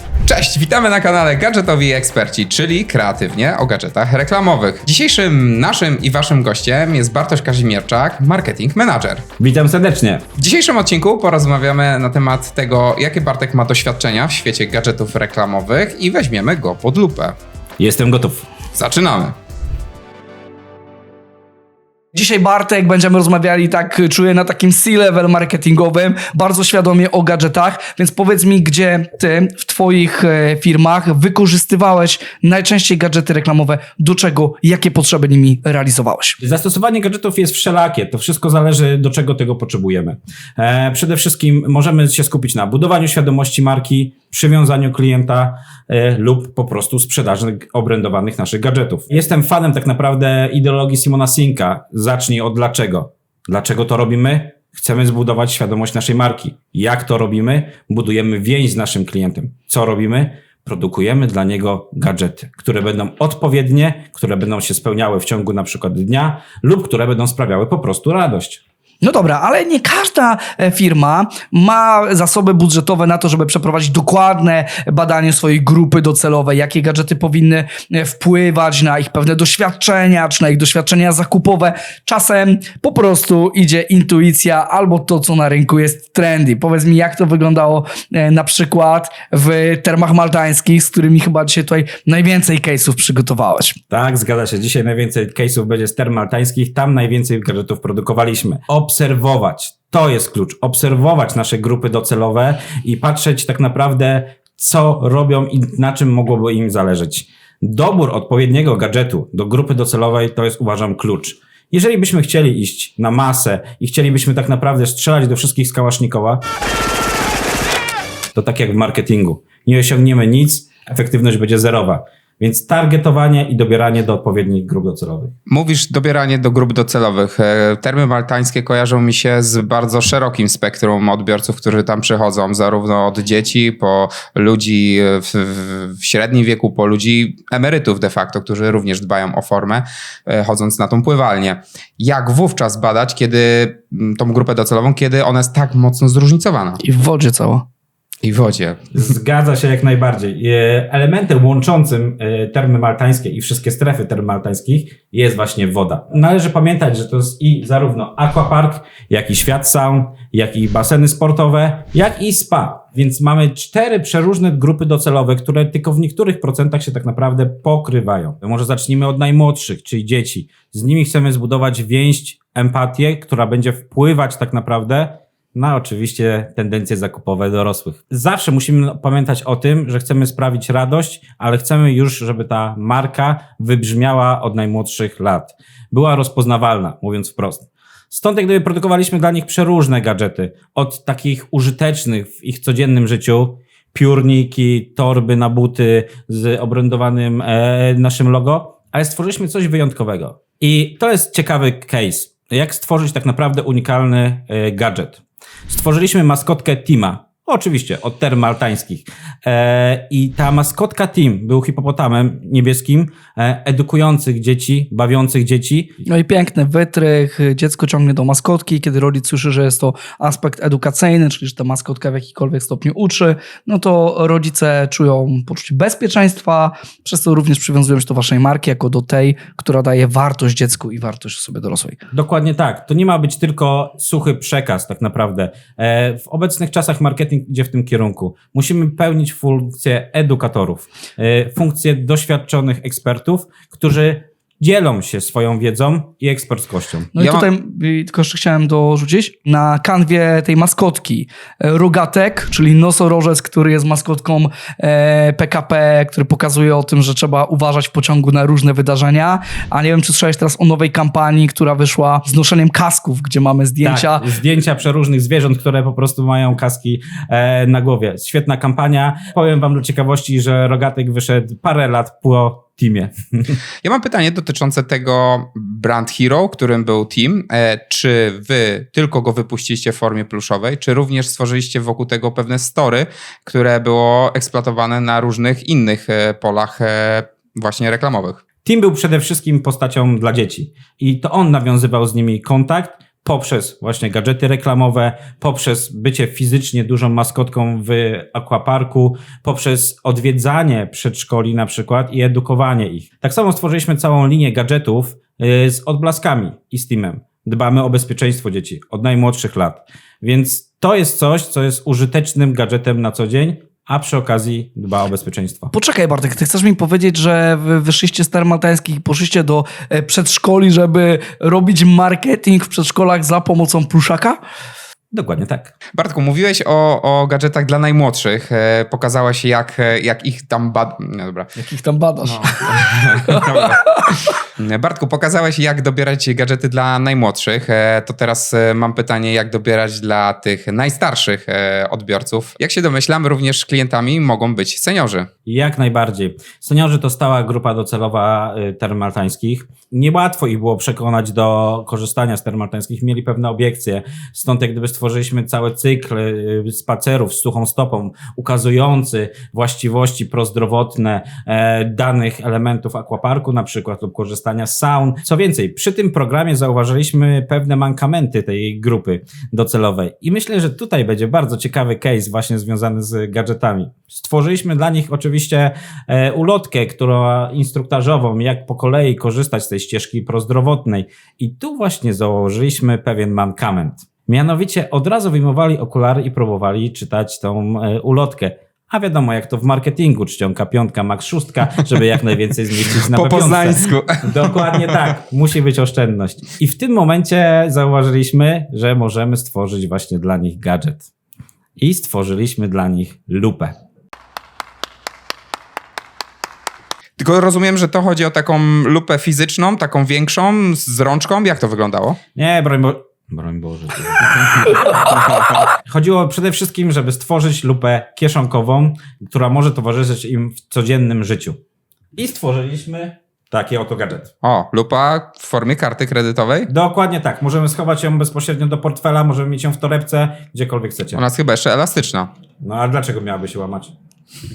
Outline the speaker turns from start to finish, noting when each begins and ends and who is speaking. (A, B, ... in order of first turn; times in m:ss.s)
0:00.2-0:09.2 A
0:09.4-0:10.2 B
0:10.4-0:17.4 A
0:17.8-0:18.5 B
0:18.8-0:19.4 A
0:22.1-0:36.4 C
0:36.4-1:08.6 B
1:09.0-1:33.8 C
1:33.9-1:56.4 B
1:58.4-2:05.3 B
2:05.5-2:26.8 A
2:26.8-2:27.6 C
2:28.2-2:29.0 A
2:28.9-3:36.0 B
3:36.0-3:52.0 C
3:52.1-4:07.1 B
4:07.2-4:24.3 C
4:07.2-4:07.5 A
4:23.8-4:33.6 B
4:33.8-4:48.4 A
4:48.6-5:15.7 B
5:15.7-5:24.4 C
5:25.1-5:25.7 B
5:26.0-5:31.6 A
5:31.6-5:34.0 C
5:32.2-5:45.3 A
5:45.5-6:41.1 B
6:33.0-6:35.1 A
6:41.8-6:43.8 B
6:47.2-6:52.2 A
6:52.4-6:55.0 B
6:55.8-7:01.6 B
7:02.2-7:04.3 B
7:04.4-7:06.7 A
7:06.7-7:11.2 B
7:11.1-7:12.3 A
7:12.6-7:13.9 B